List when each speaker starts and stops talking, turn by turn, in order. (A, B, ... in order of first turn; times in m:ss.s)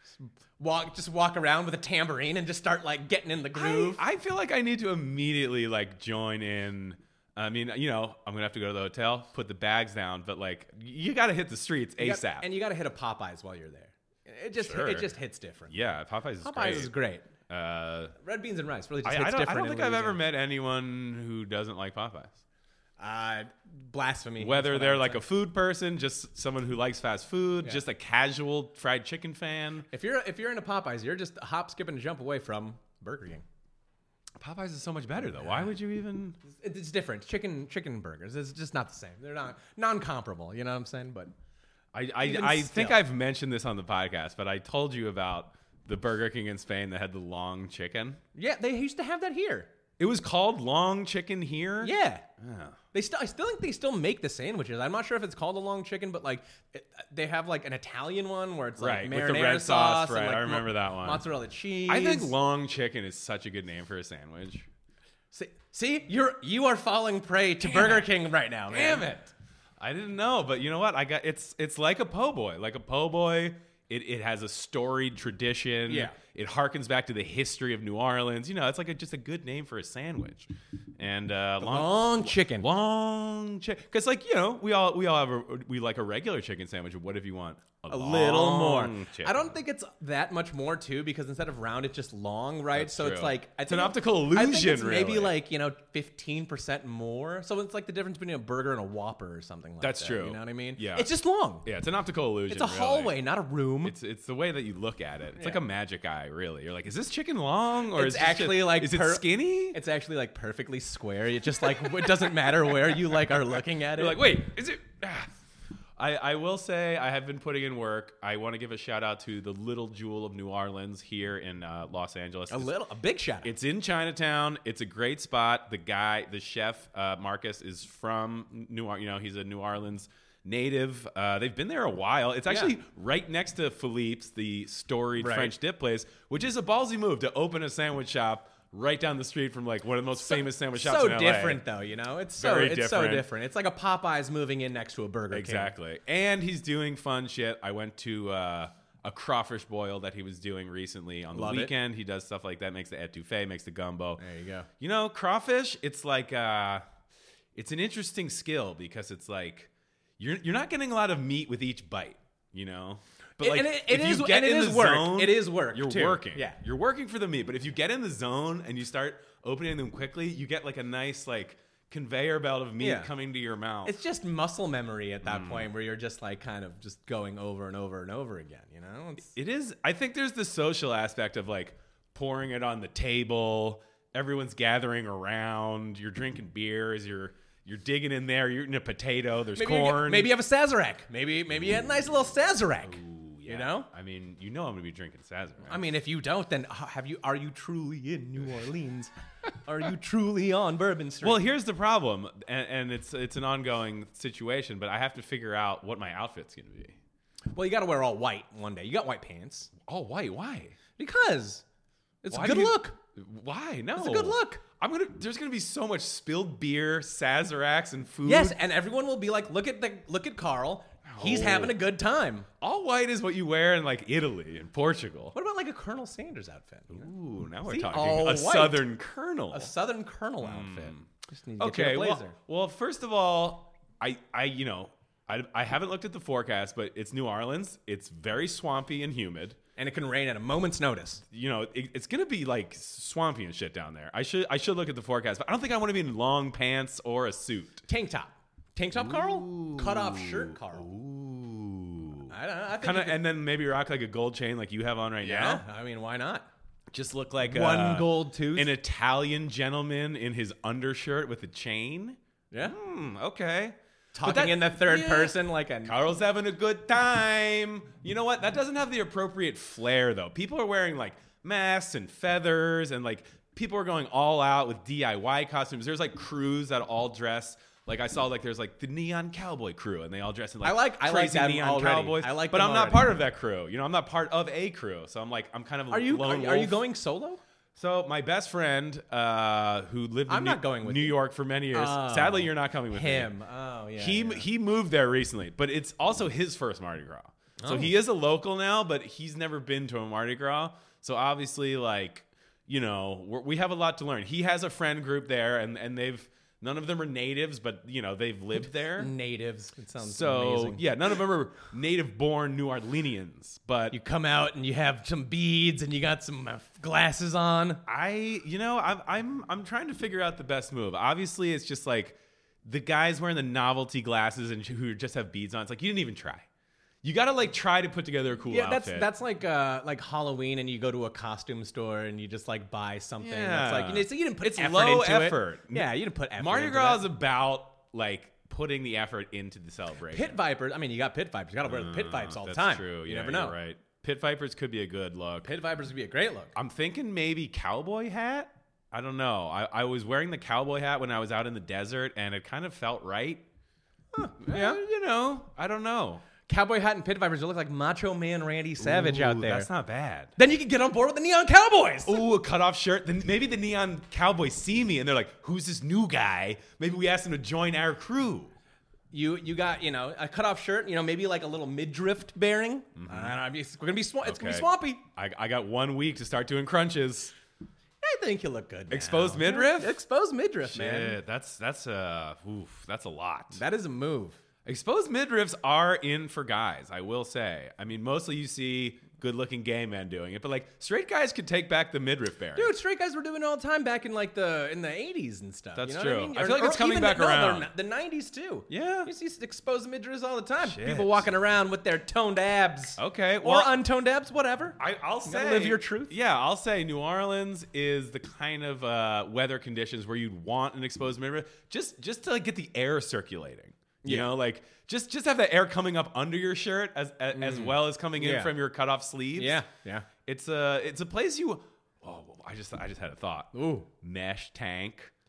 0:00.2-0:04.0 A
0:03.5-0:12.4 B
0:12.0-0:15.7 A
0:14.6-0:15.1 B
0:15.7-0:16.9 B
0:16.4-0:17.3 A
0:17.5-0:18.1 B
0:18.2-0:20.2 A
0:19.0-0:22.4 B
0:23.0-0:25.2 A
0:24.4-0:29.9 B
0:29.9-0:33.4 A
0:34.4-0:36.4 B
0:35.2-0:35.7 A
0:36.5-0:41.3 A
0:41.9-0:48.2 B
0:42.2-0:43.0 A
0:48.3-0:49.7 A
0:50.0-0:52.8 B
0:51.8-0:52.2 A
0:52.9-1:02.3 A
0:58.8-1:01.2 B
1:01.9-1:04.7 B
1:05.3-1:09.1 A
1:07.6-1:08.1 B
1:08.7-1:29.5 B
1:15.9-1:16.2 A
1:21.6-1:22.7 A
1:27.9-1:41.6 A
1:32.7-1:35.4 B
1:39.8-1:41.1 B
1:41.6-1:43.2 B
1:42.5-1:43.9 A
1:43.8-1:49.8 B
1:47.9-1:54.2 A
1:51.7-1:52.1 B
1:53.9-1:55.3 B
1:56.0-2:02.7 B
2:02.5-2:03.5 A
2:03.4-2:21.6 B
2:12.5-2:12.7 A
2:15.2-2:15.5 A
2:20.2-2:25.7 A
2:22.4-2:23.3 B
2:25.3-2:34.2 B
2:31.3-2:31.7 A
2:34.2-2:34.7 A
2:34.8-2:36.8 B
2:37.5-2:53.9 B
2:43.4-2:46.6 A
2:52.8-2:53.1 A
2:53.8-2:59.3 A
2:55.2-2:55.7 B
2:59.3-3:10.3 B
3:09.5-3:13.9 A
3:12.8-3:15.8 B
3:15.7-3:19.1 A
3:19.6-3:21.4 A
3:21.2-3:27.0 B
3:27.5-3:29.7 A
3:29.8-3:30.8 B
3:31.0-3:31.6 A
3:32.2-3:33.0 A
3:32.3-3:38.6 B
3:33.9-3:34.6 A
3:38.2-3:42.5 A
3:41.0-3:41.8 B
3:42.6-3:45.3 B
3:45.3-3:47.1 A
3:46.9-3:49.7 B
3:47.6-3:48.8 A
3:49.5-3:52.4 A
3:50.4-3:51.1 B
3:51.6-3:59.6 B
3:59.8-4:01.2 A
4:01.3-4:07.8 B
4:07.9-4:10.9 A
4:08.9-4:15.6 B
4:12.3-4:13.2 A
4:15.2-4:16.5 A
4:16.9-4:46.8 B
4:17.4-4:18.7 A
4:22.5-4:22.8 A
4:24.1-4:26.0 A
4:40.6-4:43.1 A
4:45.9-4:47.4 A
4:47.8-4:53.3 B
4:50.3-4:51.2 A
4:51.7-4:54.4 A
4:54.0-5:09.1 B
4:57.6-4:57.9 A
5:09.0-5:10.8 A
5:10.0-5:14.0 B
5:13.9-5:17.8 A
5:17.8-5:26.5 B
5:27.0-5:29.1 B
5:28.5-5:37.0 A
5:33.2-5:40.4 B
5:40.1-5:43.6 A
5:41.6-5:45.5 B
5:45.4-5:46.5 A
5:46.5-5:53.4 B
5:54.1-5:54.8 A
5:54.4-5:56.2 B
5:56.5-5:59.7 A
5:58.8-6:00.3 B
6:00.4-6:02.2 A
6:02.0-6:08.5 B
6:09.1-6:15.0 A
6:13.0-6:13.4 B
6:14.2-6:17.3 B
6:18.0-6:21.2 A
6:18.9-6:20.0 B
6:20.7-6:23.6 B
6:23.5-6:24.4 A
6:24.6-6:32.7 B
6:32.5-6:46.1 A
6:35.8-6:37.7 B
6:38.7-6:39.1 B
6:40.6-6:41.3 B
6:43.0-6:43.8 B
6:44.8-6:59.6 B
6:54.0-6:54.3 A
6:57.3-6:58.5 A
6:59.4-7:00.1 A
7:00.2-7:05.1 B
7:03.5-7:03.9 A